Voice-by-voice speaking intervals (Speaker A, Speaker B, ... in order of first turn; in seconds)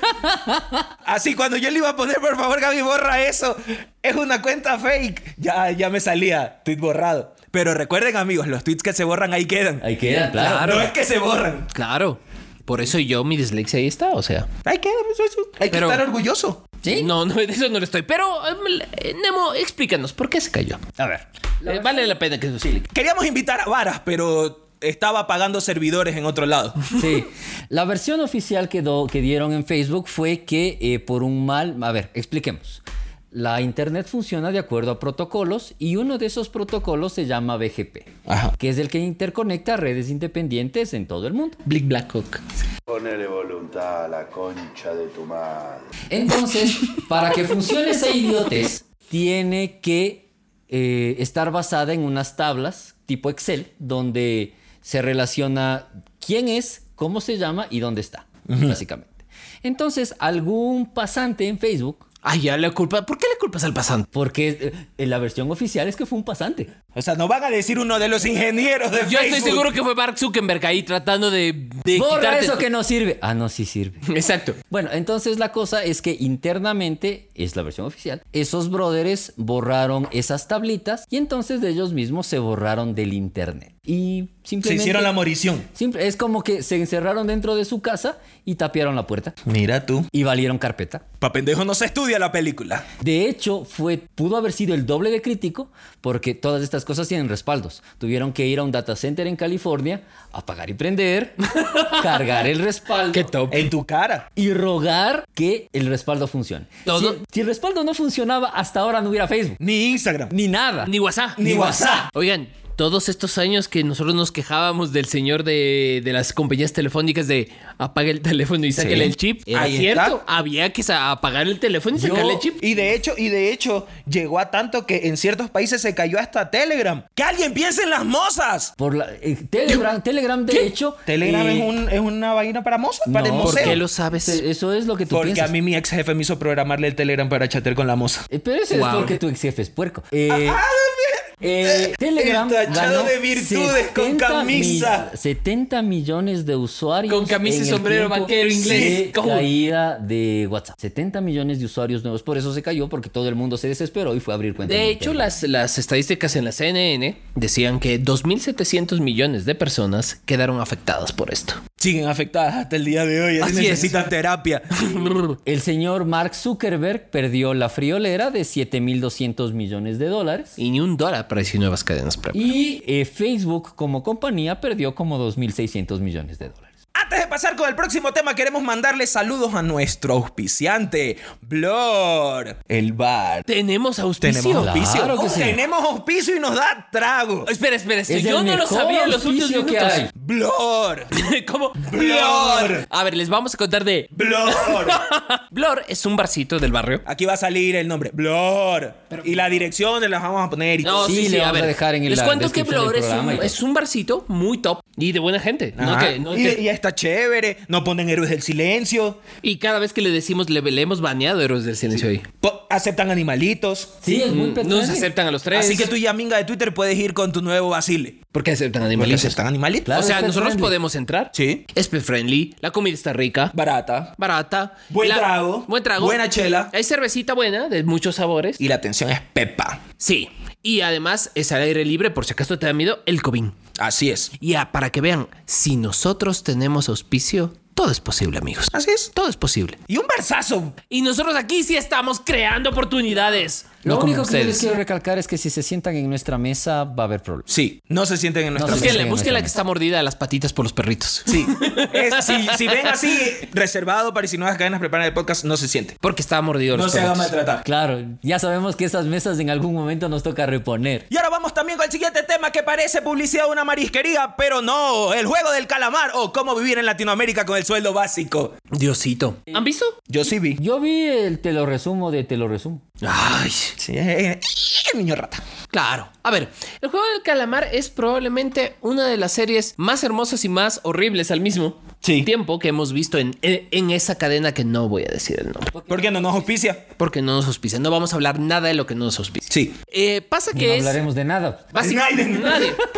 Speaker A: 0.2-0.8, 9.8-10.8, 16.8-17.1, 21.0-22.1, 26.9-41.6, 46.1-62.0, 64.1-66.7, 71.9-74.0, 74.7-85.1, 85.7-89.4, 90.1-91.0, 93.0-103.3, 104.3-109.6, 110.3-112.0, 118.8-119.1, 121.9-122.5, 128.8-131.7, 133.1-135.5, 138.3-140.6, 141.4-155.3, 165.4-170.5, 172.3-176.7, 184.6-185.6, 188.1-190.1, 201.0-203.6, 214.0-215.1, 219.8-220.7, 243.8-247.4, 248.5-249.6, 257.6-261.1, 270.6-272.8, 290.5-291.7
Speaker B: 1.0-9.8, 10.6-11.7, 14.6-16.6, 22.9-26.8, 38.3-38.5, 58.5-58.8, 66.9-69.7, 84.6-85.7, 89.4-90.1, 91.2-92.8, 103.5-104.2, 109.6-110.3, 111.4-112.1, 119.5-120.2, 122.6-128.7, 131.1-133.8, 135.1-138.2, 140.3-145.1, 148.5-149.0, 161.8-165.0, 176.9-183.4, 184.2-187.5, 190.1-191.1, 191.8-192.8, 194.1-195.0, 197.1-201.1, 205.8-209.2, 212.4-213.9, 215.5-218.2, 218.9-219.9, 221.3-221.6, 223.5-224.1, 224.9-226.7, 228.6-229.8, 233.8-234.3, 238.7-239.1, 239.9-240.8, 247.5-249.0, 251.3-256.0, 256.7-257.6, 261.1-268.6, 270.1-270.6, 273.8-275.4, 282.0-282.3, 285.9-286.8, 289.5-289.8, 291.8-292.8
Speaker C: 10.3-10.9, 11.7-14.5, 15.7-16.0, 16.9-20.9, 21.6-22.9, 41.6-42.4, 62.2-64.1, 69.0-72.6, 74.0-74.6, 101.5-102.2, 103.1-103.7, 106.8-107.2, 110.8-122.6, 133.3-134.4, 138.7-139.2, 147.1-149.5, 154.7-161.6, 163.4-164.0, 164.8-165.3, 170.6-172.4, 183.5-185.0, 187.5-190.1, 191.1-197.0, 199.1-199.5, 200.8-206.6, 209.4-212.2, 214.3-215.9, 218.3-219.4, 219.9-223.5, 224.2-228.6, 230.0-233.5, 234.4-239.8, 240.9-244.7, 248.6-253.2, 256.0-257.3, 268.7-269.9, 273.0-273.7, 275.7-285.8, 287.0-291.0, 291.7-292.8
Speaker D: 42.9-45.9